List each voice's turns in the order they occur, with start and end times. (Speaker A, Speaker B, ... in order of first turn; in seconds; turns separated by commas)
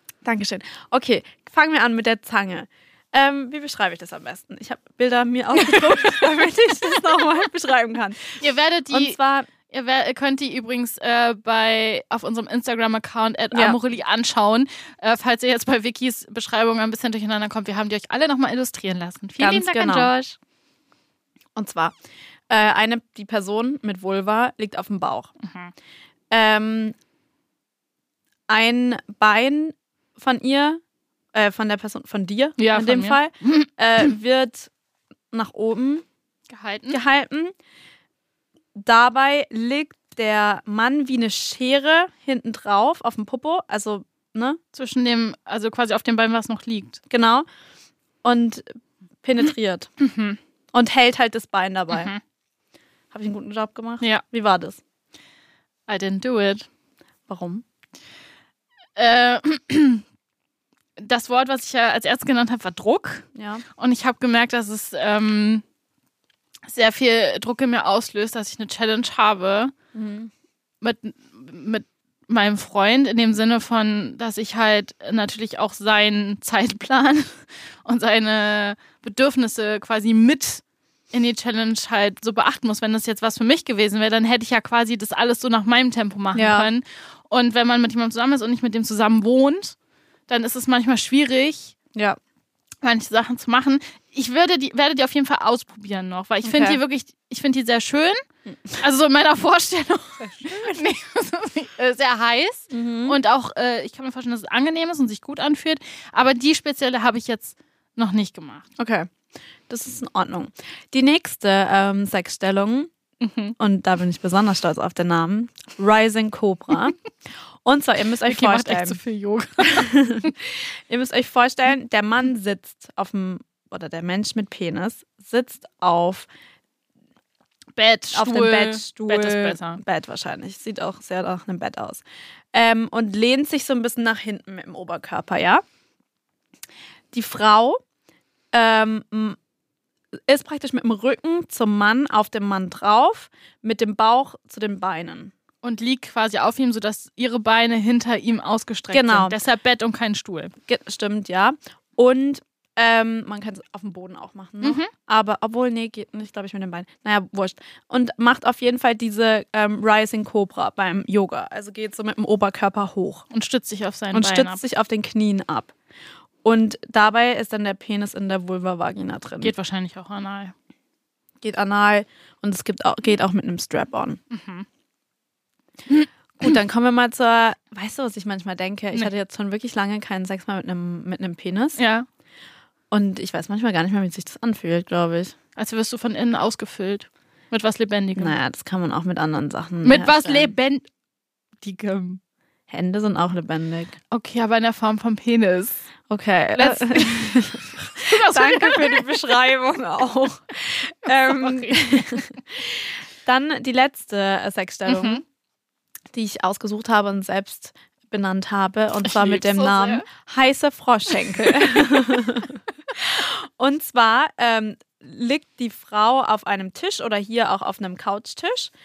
Speaker A: 0.2-9.5, Speaker B: 5.7-6.2, Speaker B: 8.4-20.4, Speaker A: 19.4-20.1, Speaker A: 21.6-21.9, Speaker A: 22.5-25.3, Speaker B: 25.4-25.7, Speaker A: 26.3-26.9, Speaker A: 28.5-30.8, Speaker A: 31.3-34.7, Speaker B: 32.6-33.7, Speaker A: 35.3-36.0, Speaker B: 36.5-37.0, Speaker A: 36.9-37.5, Speaker A: 38.7-44.6, Speaker B: 44.7-47.0, Speaker A: 47.1-47.5, Speaker A: 48.2-49.9, Speaker B: 50.0-50.4, Speaker A: 50.7-52.1, Speaker B: 51.9-52.2, Speaker A: 53.1-54.8, Speaker B: 55.9-56.7, Speaker A: 57.3-57.6, Speaker B: 59.0-60.0, Speaker B: 61.0-63.2, Speaker A: 63.3-63.6, Speaker B: 63.8-65.6, Speaker B: 66.7-69.7, Speaker A: 69.9-70.3, Speaker B: 70.8-89.8, Speaker A: 86.3-86.7, Speaker B: 90.3-91.8, Speaker B: 92.8-98.2, Speaker A: 96.4-96.8, Speaker A: 98.5-98.8, Speaker B: 98.8-108.7, Speaker A: 100.2-100.8, Speaker A: 102.7-103.2, Speaker A: 108.8-109.1, Speaker A: 109.7-112.9, Speaker B: 113.2-113.5, Speaker A: 113.6-117.0, Speaker A: 117.6-119.0, Speaker B: 118.2-120.3, Speaker A: 119.6-126.3, Speaker B: 127.8-129.8, Speaker A: 128.1-132.0, Speaker A: 132.5-135.6, Speaker A: 137.1-137.8, Speaker A: 138.5-139.4, Speaker A: 140.3-145.3, Speaker B: 145.6-150.5, Speaker A: 148.9-149.4, Speaker A: 150.7-163.2, Speaker B: 154.6-154.9, Speaker B: 163.3-164.6, Speaker A: 164.1-165.7, Speaker A: 166.4-169.5, Speaker B: 169.4-170.5, Speaker A: 171.4-174.2, Speaker B: 174.3-174.7, Speaker A: 176.4-181.8, Speaker B: 181.8-182.1, Speaker A: 182.9-185.3, Speaker B: 185.6-188.4, Speaker A: 188.2-190.5, Speaker B: 189.8-190.9, Speaker B: 191.6-192.2, Speaker A: 192.7-194.0, Speaker B: 194.1-195.8, Speaker A: 196.1-205.2, Speaker B: 196.5-199.2, Speaker B: 201.2-202.3, Speaker B: 204.9-205.2, Speaker A: 206.1-218.7, Speaker B: 209.0-210.1